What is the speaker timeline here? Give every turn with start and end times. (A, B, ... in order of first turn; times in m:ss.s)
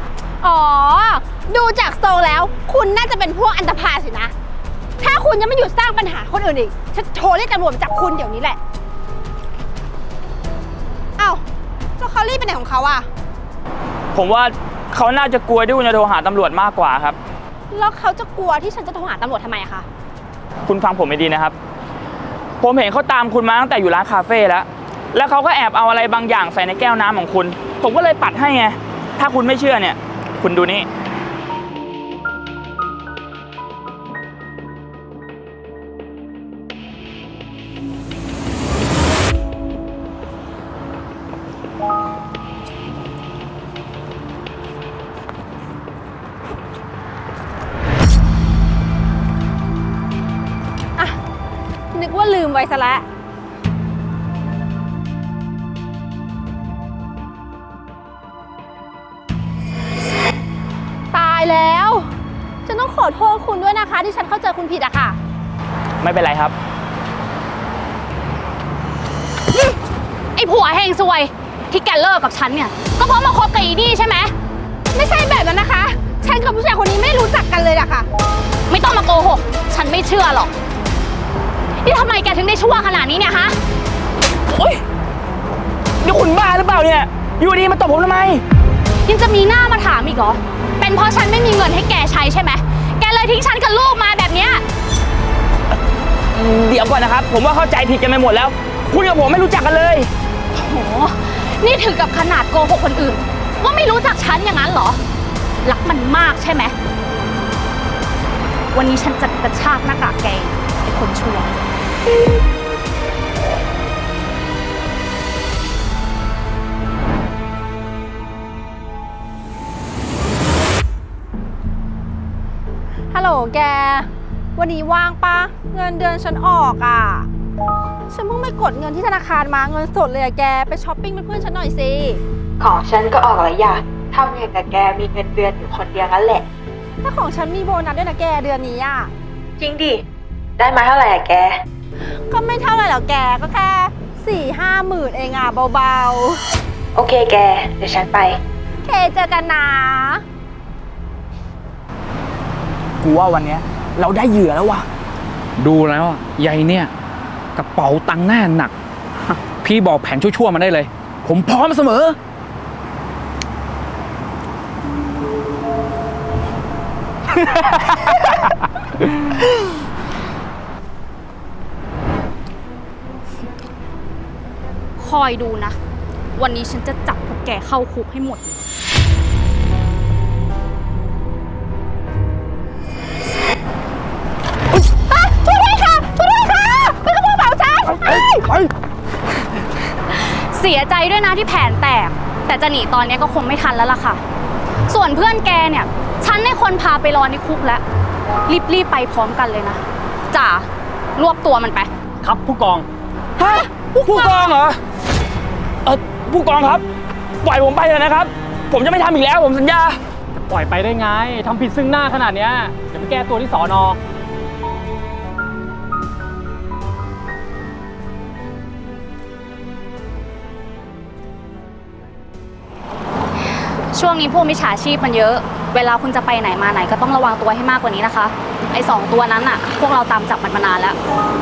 0:00.4-0:04.3 A
0:05.0-0:08.6 A
0:11.2-0:11.4 A
0:12.0-0:13.0 A
0:14.1-0:17.2 B
0:17.7-0:19.8 A
0:20.6-0:21.6 B
0:22.6-0:30.9 B
0:51.9-0:53.0 A
1:01.1-1:02.1 A
1:02.6-1:05.2 A
1:06.0-1:06.5 B
1:10.4-1:14.3 C
1:14.9-1:18.1 A
1:18.7-1:20.5 C
1:21.8-1:23.6 C
1:24.5-1:24.8 B
1:26.0-1:28.4 B
1:29.0-1:34.6 C
1:36.3-1:40.1 B
1:40.5-1:45.0 C
1:45.6-1:46.7 C
1:48.7-1:51.5 C
2:03.1-2:07.3 A
2:08.1-2:12.2 A
2:12.6-2:16.4 D
2:17.0-2:19.1 A
2:19.6-2:20.0 D
2:20.6-2:21.6 D
2:22.3-2:26.4 A
2:26.9-2:28.4 D
2:28.8-2:30.2 A
2:33.0-2:34.9 B
2:35.6-2:36.9 E
2:37.5-2:38.7 E
2:39.6-2:42.2 E
2:47.3-2:48.4 E
2:55.0-2:55.8 C
2:56.3-2:58.6 C
3:04.9-3:08.6 A
3:10.1-3:14.2 C
3:14.9-3:17.8 C
3:18.5-3:21.9 C
3:22.2-3:22.9 F
3:23.4-3:24.8 B
3:25.8-3:26.8 B
3:27.4-3:30.0 B
3:30.5-3:34.0 F
3:43.9-3:51.0 C